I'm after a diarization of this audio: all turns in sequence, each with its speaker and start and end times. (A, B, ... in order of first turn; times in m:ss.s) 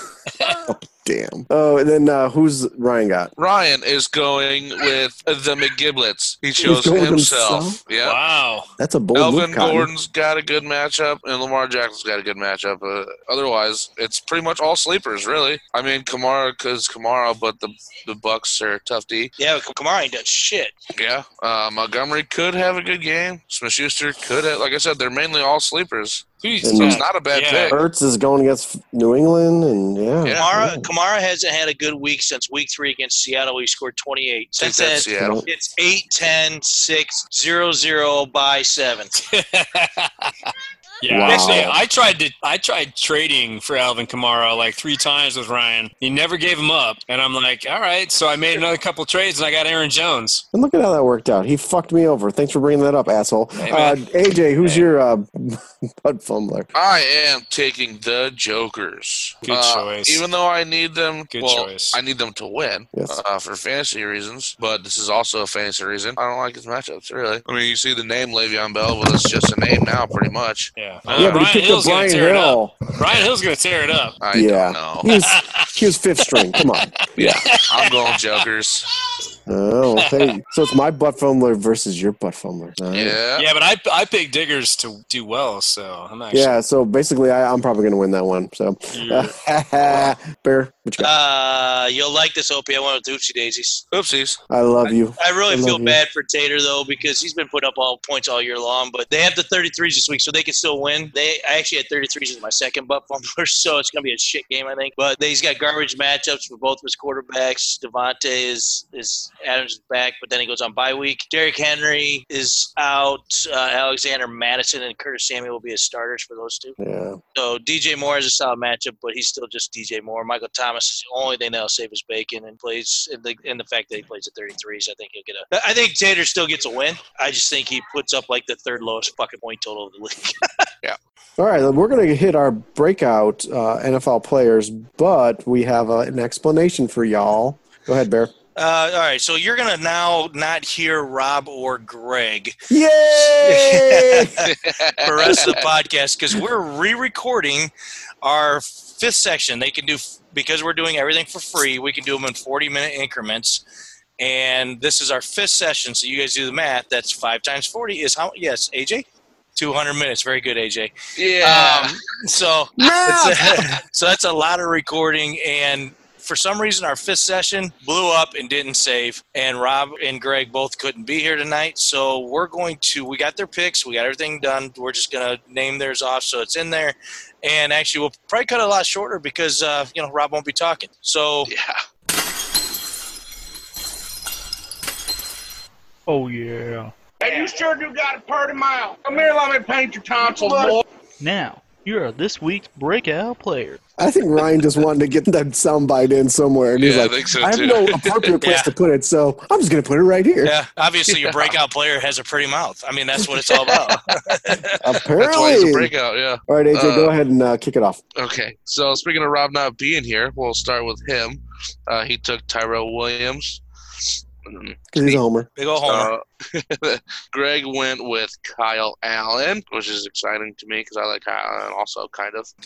0:00.5-0:03.3 A
0:03.4-0:08.2 B
0:06.6-0:07.8 A
0:08.0-0:08.7 C
0:08.8-0:09.9 A
0:09.2-0:19.3 B
0:19.4-0:20.8 D
0:21.0-0:27.8 B
0:26.6-0:27.1 A
0:26.7-0:27.8 C
0:27.7-0:30.9 A
0:30.2-0:30.5 B
0:30.4-0:39.1 D
0:34.6-0:35.4 B
0:35.2-0:35.5 A
0:39.2-0:40.5 C
0:41.0-0:50.4 C
0:41.0-0:41.8 A
0:41.3-0:41.6 D
0:50.5-0:56.7 A
0:53.6-0:54.0 C
0:54.6-0:54.9 C
0:56.7-1:11.4 B
0:59.4-1:00.2 C
1:01.3-1:02.0 C
1:02.9-1:03.2 A
1:10.8-1:14.2 C
1:11.2-1:12.8 A
1:14.2-1:15.1 B
1:14.3-1:16.9 A
1:15.3-1:15.7 C
1:17.2-1:18.9 B
1:17.4-1:18.0 C
1:19.5-1:23.2 A
1:20.0-1:20.3 C
1:22.9-1:23.5 B
1:23.4-1:26.5 C
1:26.3-1:31.1 A
1:28.9-1:29.4 C
1:31.0-1:33.9 D
1:33.9-1:34.4 B
1:34.5-1:36.0 A
1:35.2-1:56.8 D
1:56.8-1:57.2 A
1:57.4-2:10.7 D
2:11.4-2:18.3 A
2:18.6-2:22.6 D
2:22.7-2:24.5 A
2:23.2-2:24.5 D
2:24.5-2:25.6 B
2:25.0-2:27.7 D
2:28.2-2:33.6 D
2:34.2-2:39.0 D
2:39.6-3:01.5 D
2:41.2-2:42.0 B
2:42.8-2:43.6 A
3:01.5-3:01.8 B
3:06.1-3:06.9 E
3:07.2-3:10.8 F
3:11.2-3:13.8 E
3:14.0-3:20.6 A
3:16.8-3:18.4 B
3:18.4-3:18.7 D
3:20.4-3:25.0 D
3:21.1-3:21.5 B
3:24.7-3:25.9 A
3:25.2-3:27.1 B
3:26.5-3:28.0 A
3:28.2-3:35.2 B
3:34.9-3:35.5 A
3:35.6-3:36.1 D
3:35.8-3:42.5 B